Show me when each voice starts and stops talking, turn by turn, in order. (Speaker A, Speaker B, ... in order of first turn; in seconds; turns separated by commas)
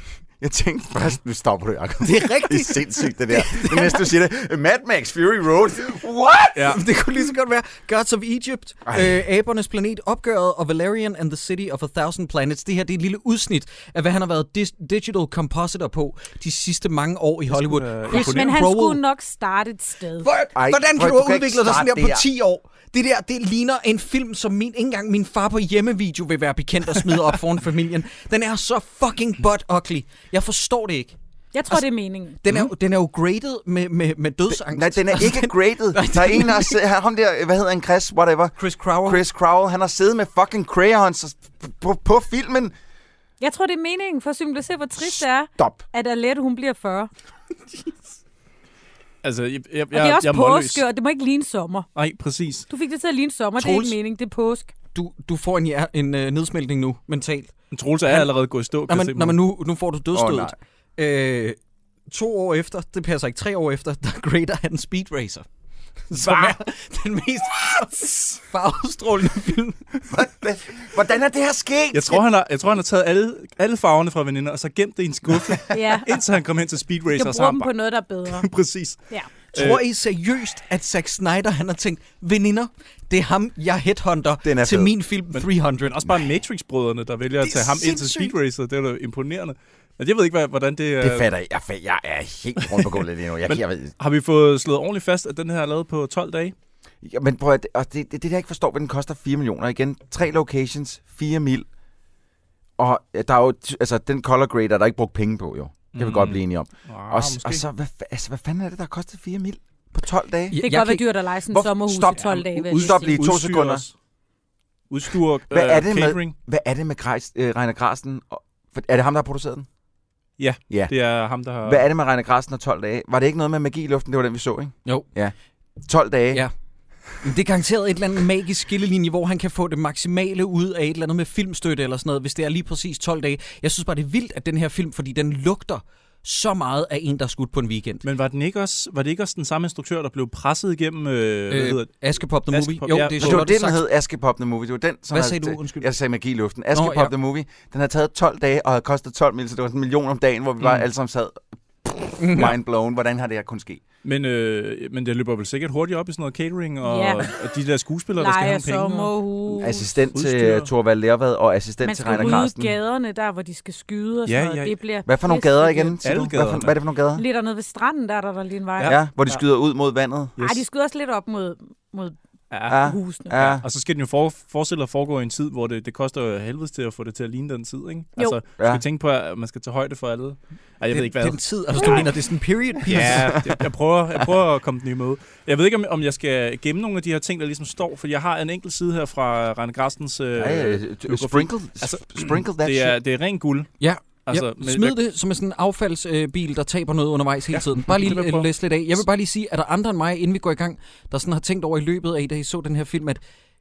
Speaker A: 0.4-6.8, Speaker B: 2.0-4.0, Speaker B: 6.7-19.0, Speaker A: 8.9-9.2, Speaker C: 17.5-18.6, Speaker D: 18.1-20.3, Speaker B: 20.2-31.2, Speaker A: 20.6-22.2, Speaker D: 31.5-32.4, Speaker B: 32.4-36.8, Speaker A: 34.5-42.7, Speaker B: 38.6-39.2, Speaker D: 43.4-47.1, Speaker A: 45.0-45.8, Speaker C: 49.2-50.8, Speaker D: 49.9-51.9, Speaker C: 52.0-52.7, Speaker D: 52.7-54.7, Speaker B: 53.6-54.0, Speaker B: 54.9-57.5, Speaker C: 57.7-59.4, Speaker B: 58.9-61.6, Speaker A: 60.1-60.6, Speaker B: 62.1-65.5, Speaker B: 66.1-69.9, Speaker C: 66.1-66.6, Speaker A: 70.0-72.2, Speaker C: 71.9-77.7, Speaker D: 75.7-76.2, Speaker D: 77.1-78.5, Speaker C: 78.3-79.8, Speaker B: 79.5-86.0, Speaker A: 84.4-84.9, Speaker C: 85.3-91.3, Speaker B: 87.4-88.3, Speaker A: 91.0-93.9, Speaker C: 93.5-96.5, Speaker A: 97.0-101.7, Speaker A: 102.8-110.6, Speaker C: 105.9-107.6, Speaker B: 110.5-111.0, Speaker D: 110.6-113.2, Speaker A: 111.5-113.8, Speaker C: 112.2-113.9, Speaker C: 114.9-116.3, Speaker A: 115.5-119.7, Speaker C: 120.4-121.8, Speaker A: 120.7-121.0, Speaker A: 121.6-125.3, Speaker A: 125.9-126.5, Speaker B: 127.2-138.1, Speaker C: 138.0-143.5, Speaker B: 141.5-143.8, Speaker A: 143.2-153.8, Speaker B: 145.1-145.9, Speaker B: 146.7-147.1, Speaker C: 150.6-150.9, Speaker B: 152.2-152.5, Speaker C: 154.0-159.1, Speaker D: 156.8-157.3, Speaker D: 158.2-159.9, Speaker A: 159.6-162.7, Speaker C: 160.1-160.7, Speaker D: 161.8-166.0, Speaker C: 162.1-162.5, Speaker C: 164.3-164.8, Speaker A: 165.1-167.2, Speaker C: 166.0-166.8, Speaker D: 167.2-168.9, Speaker C: 168.8-169.4, Speaker A: 168.8-170.3, Speaker C: 170.4-170.6, Speaker D: 170.4-172.2, Speaker C: 172.5-182.1, Speaker A: 172.7-173.7, Speaker D: 172.8-173.4, Speaker A: 178.6-178.8, Speaker B: 180.9-183.3, Speaker C: 182.9-193.7, Speaker A: 182.9-183.6, Speaker A: 190.3-193.0, Speaker B: 193.8-203.2, Speaker C: 194.2-195.0, Speaker C: 197.5-198.5